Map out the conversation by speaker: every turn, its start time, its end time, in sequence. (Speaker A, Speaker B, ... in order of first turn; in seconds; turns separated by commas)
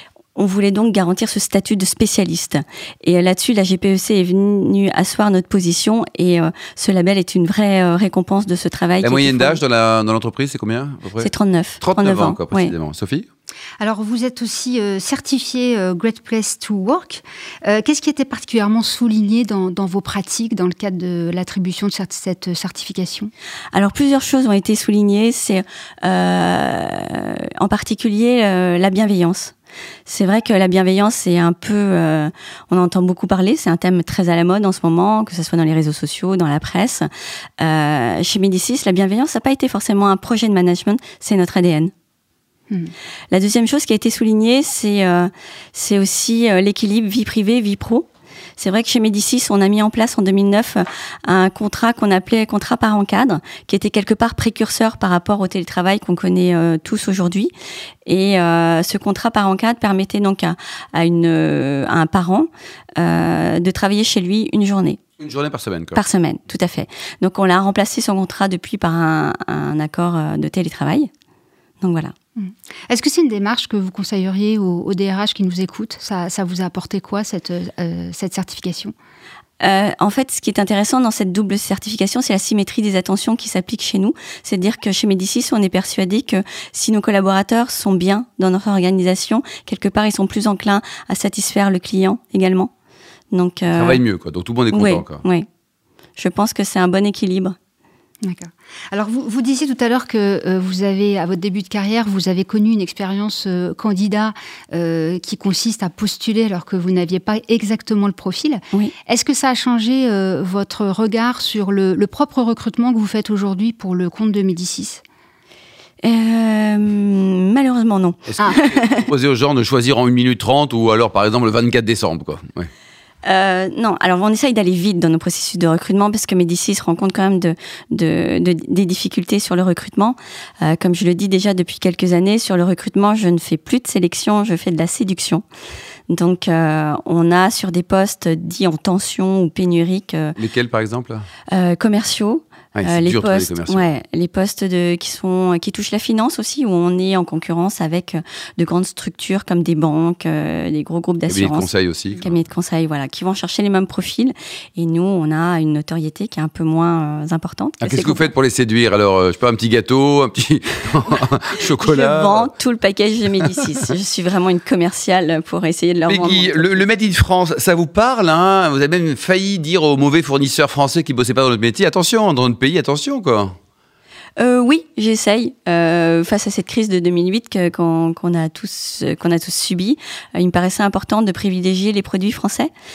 Speaker A: 0.3-9.6, Speaker B: 9.0-11.3, Speaker A: 11.2-12.7, Speaker B: 11.8-13.3, Speaker C: 13.8-23.3, Speaker A: 23.7-29.5, Speaker A: 30.1-37.1, Speaker A: 37.6-41.9, Speaker A: 43.3-57.5, Speaker A: 58.0-65.0, Speaker B: 65.2-66.0, Speaker A: 65.9-71.1, Speaker A: 71.8-72.1, Speaker C: 72.3-78.9, Speaker A: 79.6-92.7, Speaker A: 93.3-94.0, Speaker B: 93.7-95.2, Speaker A: 94.7-95.5, Speaker A: 96.2-97.5, Speaker C: 98.2-115.0, Speaker A: 116.0-119.1, Speaker B: 118.3-122.7, Speaker A: 123.2-135.4, Speaker A: 136.1-140.4, Speaker B: 140.3-141.3, Speaker A: 141.5-158.3, Speaker B: 142.8-143.8, Speaker B: 151.3-152.3, Speaker B: 157.8-162.5, Speaker A: 161.8-166.9, Speaker B: 166.1-173.5, Speaker A: 174.4-182.7